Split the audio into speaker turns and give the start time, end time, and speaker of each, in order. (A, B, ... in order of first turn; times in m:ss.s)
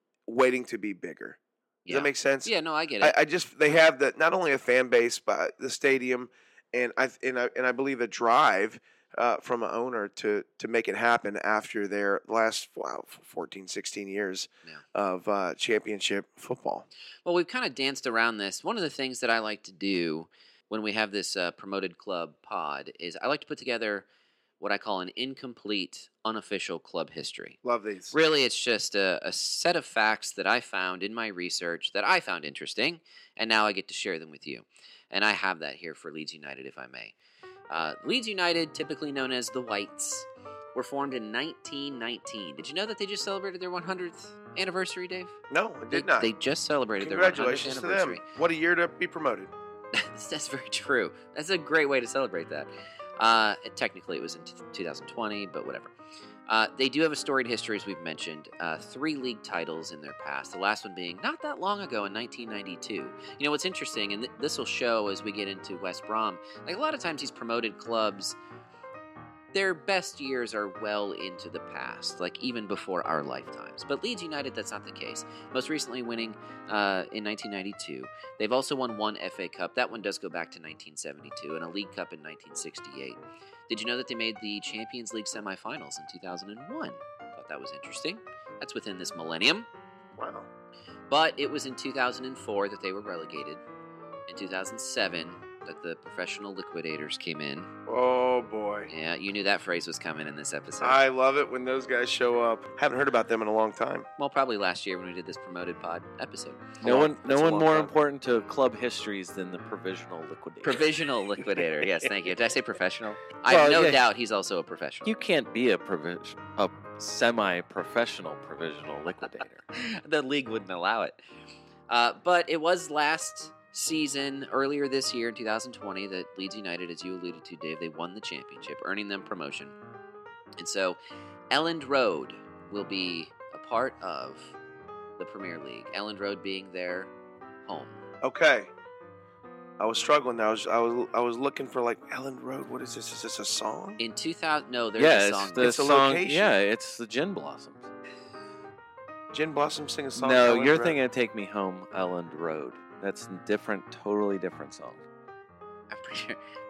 0:00.3-0:16.9 A
0:01.9-0:03.2 B
0:17.2-0:24.1 B
0:24.6-0:27.6 B
0:27.6-0:28.2 A
0:28.1-0:37.1 B
0:37.7-0:45.4 B
0:45.5-0:46.3 A
0:45.9-0:48.2 B
0:47.0-0:49.5 A
0:49.9-0:55.9 B
0:56.5-1:08.4 B
1:09.5-1:29.7 B
1:30.2-1:30.5 A
1:31.1-1:33.6 B
1:34.3-1:37.7 B
1:37.9-1:38.9 A
1:38.9-1:41.0 B
1:40.8-1:44.1 A
1:44.2-1:48.0 B
1:46.8-1:50.9 C
1:50.6-1:55.1 B
1:53.5-1:54.0 C
1:55.1-1:59.6 C
1:59.7-2:01.2 B
2:01.9-2:09.8 B
2:10.6-2:11.0 B
2:11.5-2:14.6 B
2:15.2-2:17.1 B
2:17.7-2:18.0 B
2:18.2-2:18.7 A
2:19.8-2:24.0 A
2:24.0-2:25.7 B
2:25.0-2:27.9 C
2:25.6-2:26.5 A
2:29.3-2:31.0 A
2:30.2-2:35.0 C
2:35.9-2:36.4 B